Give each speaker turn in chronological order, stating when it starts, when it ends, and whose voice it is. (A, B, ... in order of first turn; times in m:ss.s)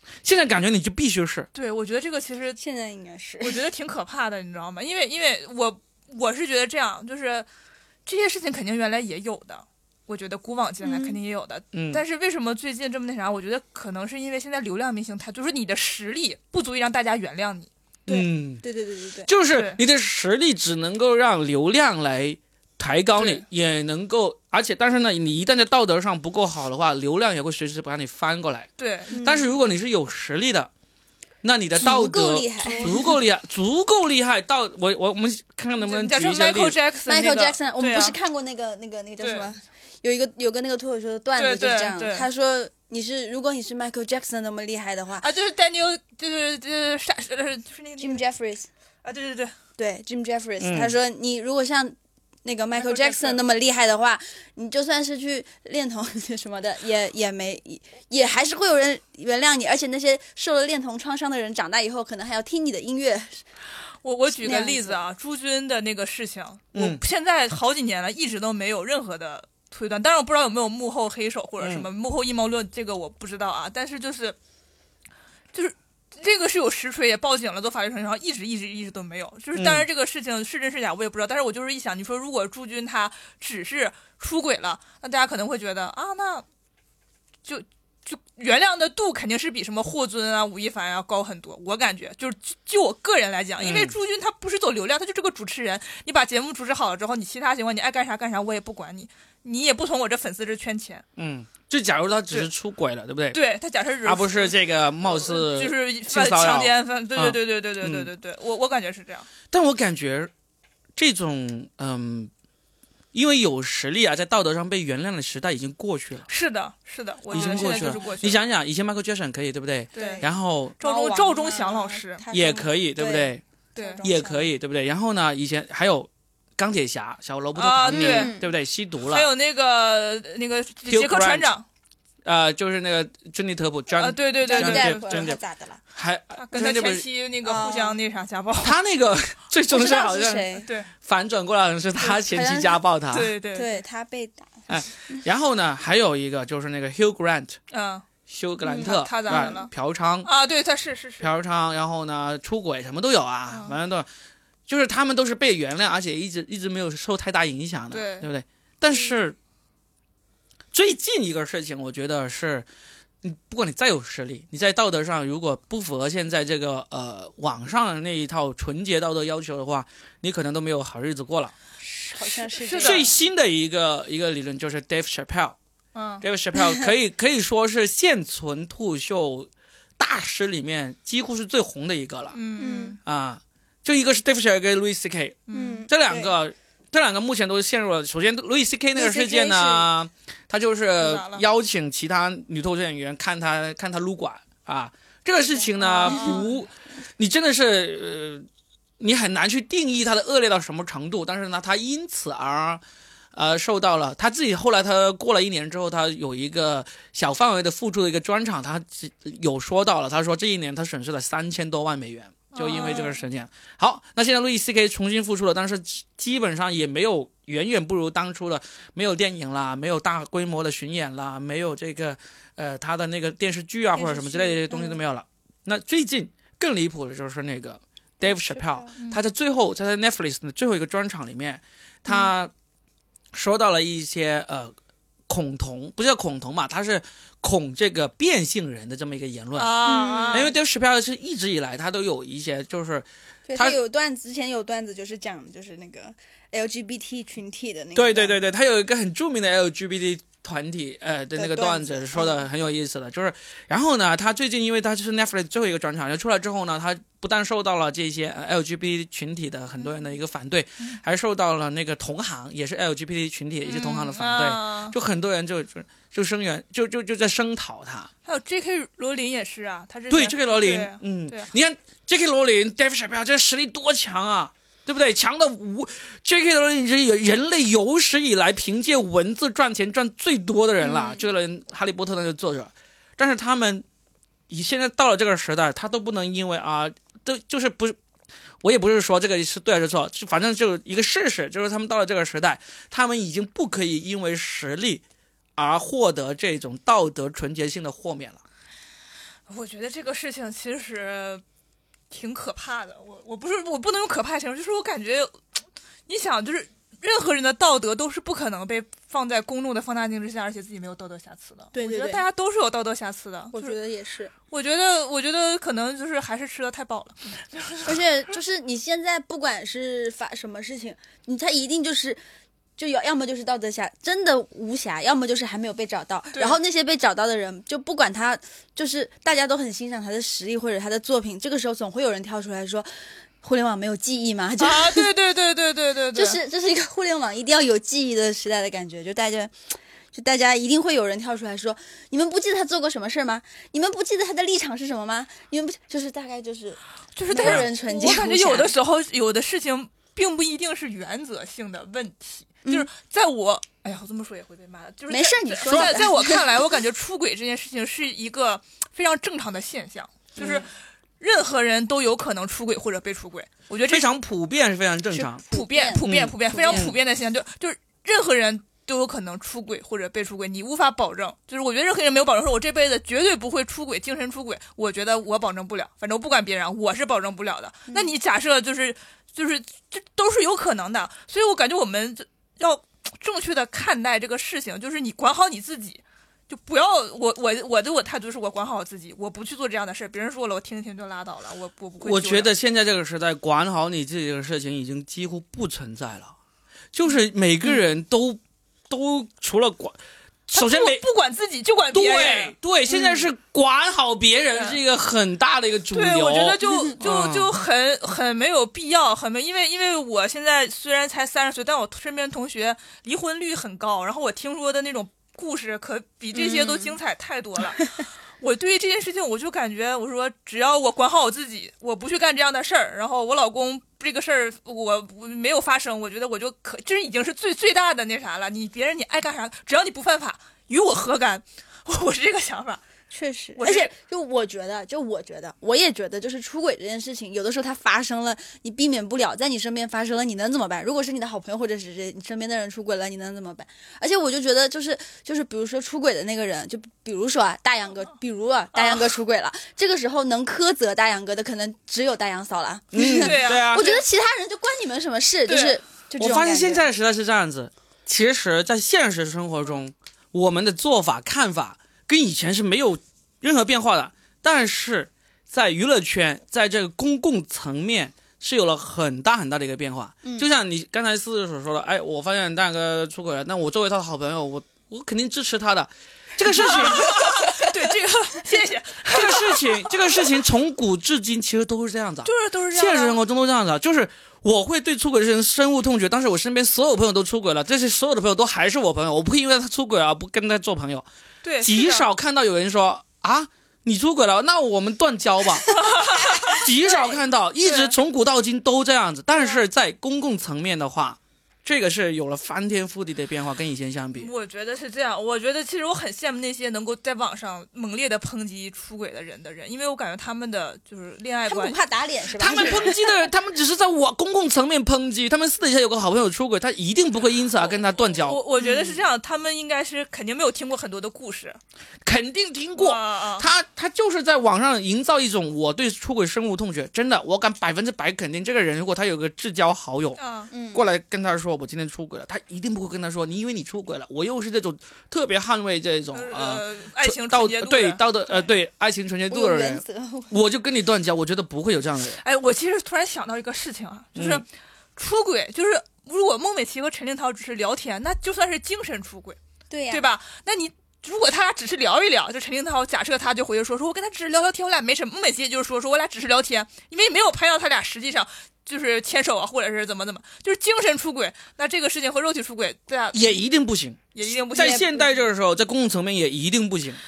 0:00.2-0:01.5 A
0:01.5-0:02.6 B
0:02.6-0:03.6 C
0:03.4-0:07.5 B
0:08.0-0:17.7 B
0:10.8-0:11.2 C
0:11.7-0:12.0 A
0:18.1-0:18.6 A
0:18.1-0:19.3 C
0:19.3-0:30.7 A
0:19.5-0:19.8 B
0:23.2-0:23.4 B
0:28.8-0:29.5 B
0:29.1-0:29.4 C
0:31.4-0:36.8 A
0:31.8-0:33.0 C
0:32.6-0:33.1 B
0:35.8-0:38.2 B
0:37.0-0:45.2 C
0:39.2-0:39.5 B
0:41.4-0:42.3 B
0:45.2-0:48.2 B
0:48.0-0:48.7 C
0:49.0-0:49.5 B
0:49.8-1:03.4 C
0:50.6-0:50.9 A
0:52.7-0:53.4 B
1:04.0-1:14.4 B
1:04.4-1:05.0 C
1:06.7-1:07.0 A
1:11.6-1:11.9 A
1:15.5-1:26.4 B
1:19.5-1:19.8 A
1:27.4-1:41.0 B
1:33.6-1:33.9 A
1:41.2-1:43.4 A
1:43.3-1:49.3 B
1:44.0-1:48.1 A
1:49.5-1:50.3 A
1:51.0-1:52.3 A
1:53.1-1:56.2 A
1:56.3-1:58.4 B
1:57.3-1:58.1 C
1:57.3-2:00.7 A
1:59.9-2:00.2 B
1:59.9-2:00.3 C
2:00.8-2:02.2 B
2:00.8-2:04.6 C
2:02.3-2:03.4 A
2:03.8-2:04.0 B
2:04.0-2:09.3 A
2:07.5-2:08.3 B
2:07.9-2:08.5 C
2:09.1-2:11.6 B
2:10.9-2:11.5 A
2:12.2-2:15.4 A
2:14.0-2:15.3 B
2:14.4-2:15.8 C
2:15.9-2:17.0 A
2:16.4-2:18.8 B
2:17.4-2:18.0 C
2:18.6-2:23.3 A
2:19.7-2:20.7 C
2:20.6-2:20.9 B
2:22.0-2:22.8 C
2:23.1-2:23.8 B
2:23.5-2:25.2 C
2:24.7-2:27.6 A
2:27.7-2:28.0 B
2:28.3-2:30.3 A
2:28.6-2:29.6 C
2:28.8-2:29.7 B
2:30.2-2:31.3 B
2:31.2-2:34.1 A
2:33.5-2:33.8 B
2:34.7-2:39.4 A
2:37.9-2:38.3 B
2:40.7-2:42.6 A
2:43.2-2:51.5 A
2:51.8-2:53.1 C
2:52.4-2:53.1 B
2:52.8-2:55.6 A
2:55.9-2:56.2 B
2:56.2-3:02.4 A
3:02.3-3:03.0 B
3:02.6-3:03.0 C
3:03.0-3:18.5 A
3:05.5-3:05.9 B
3:05.5-3:06.3 C
3:08.9-3:09.9 C
3:11.0-3:11.4 B
3:15.8-3:16.4 C
3:15.8-3:16.6 B
3:19.0-3:22.8 A
3:23.3-3:52.5 A
3:32.5-3:33.2 B
3:44.0-3:45.0 C
3:48.2-3:48.9 C
3:53.3-3:54.7 A
3:55.3-3:59.8 A
3:59.6-4:00.5 B
3:59.8-4:00.5 C
4:00.3-4:03.8 A
4:03.5-4:08.4 C
4:07.9-4:28.1 A
4:11.4-4:12.4 C
4:23.6-4:24.9 B
4:28.2-4:31.5 B
4:30.1-4:43.8 A
4:40.8-4:41.2 C
4:44.5-4:48.0 A
4:48.6-4:55.0 A
4:55.6-4:58.4 A
4:59.5-5:01.4 B
5:02.1-5:05.4 B
5:06.1-5:13.8 B
5:11.7-5:12.2 C
5:13.5-5:14.3 C
5:14.5-5:18.0 B
5:17.8-5:22.2 C
5:22.8-5:32.9 C
5:26.3-5:26.6 B
5:33.4-5:35.1 C
5:34.6-5:36.4 B
5:36.1-5:39.5 C
5:40.1-5:48.7 C
5:47.2-6:00.7 B
5:47.4-5:47.7 A
5:55.1-5:56.5 C
5:55.6-5:56.0 A
6:01.2-6:04.1 B
6:03.9-6:05.4 A
6:05.1-6:06.9 C
6:05.4-6:32.5 B
6:06.0-6:07.0 A
6:32.0-6:36.3 A
6:36.9-6:40.0 A
6:40.5-6:41.0 A
6:40.5-6:42.5 B
6:41.9-6:47.5 A
6:42.9-6:43.2 C
6:45.9-7:12.8 B
6:56.3-6:57.0 C
7:13.1-7:36.8 C
7:13.6-7:13.9 B
7:28.7-7:29.1 B
7:32.9-7:33.9 A
7:33.0-7:34.0 B
7:35.5-7:35.8 B
7:36.2-7:57.6 A
7:56.6-8:00.1 B
7:59.1-8:11.0 A
8:02.2-8:03.2 B
8:11.4-8:12.1 B
8:11.6-8:15.8 A
8:15.7-8:16.6 B
8:16.4-8:24.3 A
8:17.6-8:17.9 B
8:24.2-8:31.8 B
8:31.5-8:33.1 C
8:32.4-8:38.4 A
8:32.5-8:32.9 B
8:37.6-8:41.6 B
8:38.6-8:39.0 C
8:42.0-8:50.2 A
8:42.8-8:43.5 B
8:50.2-8:50.5 B
8:50.5-8:50.8 C
8:50.7-9:02.2 A
8:56.1-8:58.0 B
8:59.3-9:00.4 C
9:02.2-9:09.4 B
9:04.2-9:04.4 A
9:09.7-9:10.1 C
9:09.9-9:23.4 B
9:23.1-9:24.0 A
9:24.1-9:25.0 B
9:24.5-9:27.0 A
9:24.5-9:25.1 C